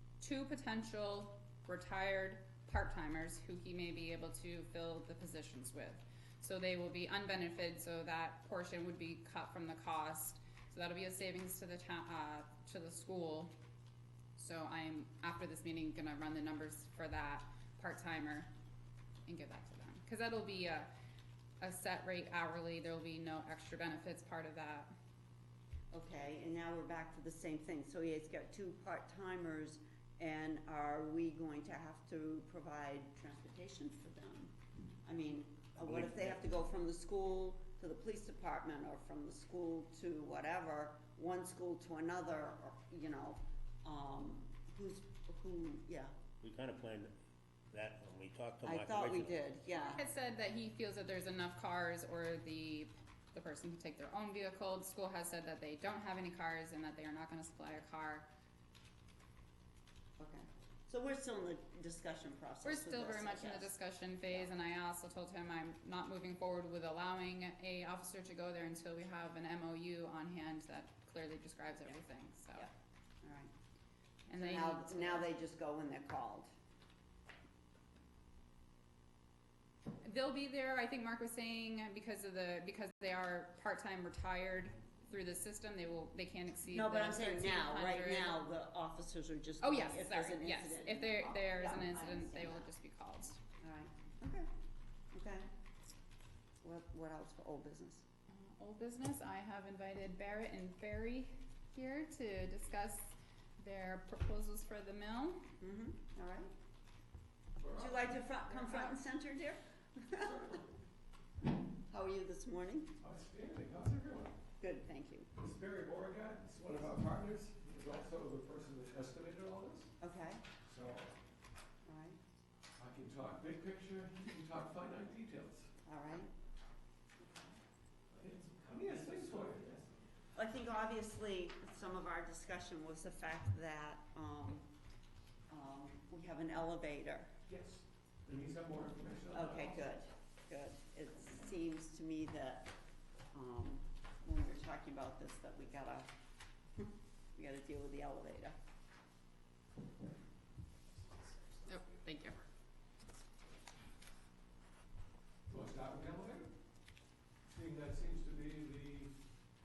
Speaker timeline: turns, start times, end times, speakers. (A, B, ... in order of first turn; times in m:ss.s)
0:00.2-0:13.5 A
0:14.4-0:18.5 A
0:19.3-0:20.9 A
0:21.6-0:24.9 A
0:25.9-0:34.5 B
0:35.0-0:46.1 B
0:35.8-0:36.5 C
0:46.4-0:47.1 C
0:47.7-0:49.5 C
0:48.6-0:50.0 B
0:49.7-0:58.3 A
1:00.2-1:03.7 B
1:02.6-1:12.7 A
1:13.2-1:13.5 B
1:14.3-1:15.3 A
1:14.3-1:16.5 B
1:20.0-1:28.4 A
1:26.7-1:32.7 B
1:29.6-1:33.4 A
1:33.6-1:34.5 B
1:35.1-1:35.5 B
1:36.6-1:38.0 B
1:38.3-1:45.5 A
1:45.6-1:46.5 B
1:47.6-1:48.1 D
1:47.7-1:50.5 B
1:48.6-1:49.0 A
1:50.1-1:50.7 D
1:51.9-1:52.9 B
1:53.0-1:54.4 D
1:54.6-1:55.3 B
1:55.3-1:59.9 D
2:00.0-2:00.4 B
2:00.6-2:01.1 D
2:01.8-2:02.2 B
2:02.8-2:05.7 D
2:05.8-2:06.3 B
2:07.2-2:07.6 B
2:08.1-2:09.9 D
2:10.4-2:14.6 B
2:15.5-2:17.3 B
2:17.5-2:19.8 D
2:19.3-2:22.7 B
2:23.3-2:26.1 B
2:26.8-2:28.5 B
2:31.2-2:31.8 D
2:31.6-2:32.4 A
2:35.5-2:36.5 D
2:37.5-2:39.1 D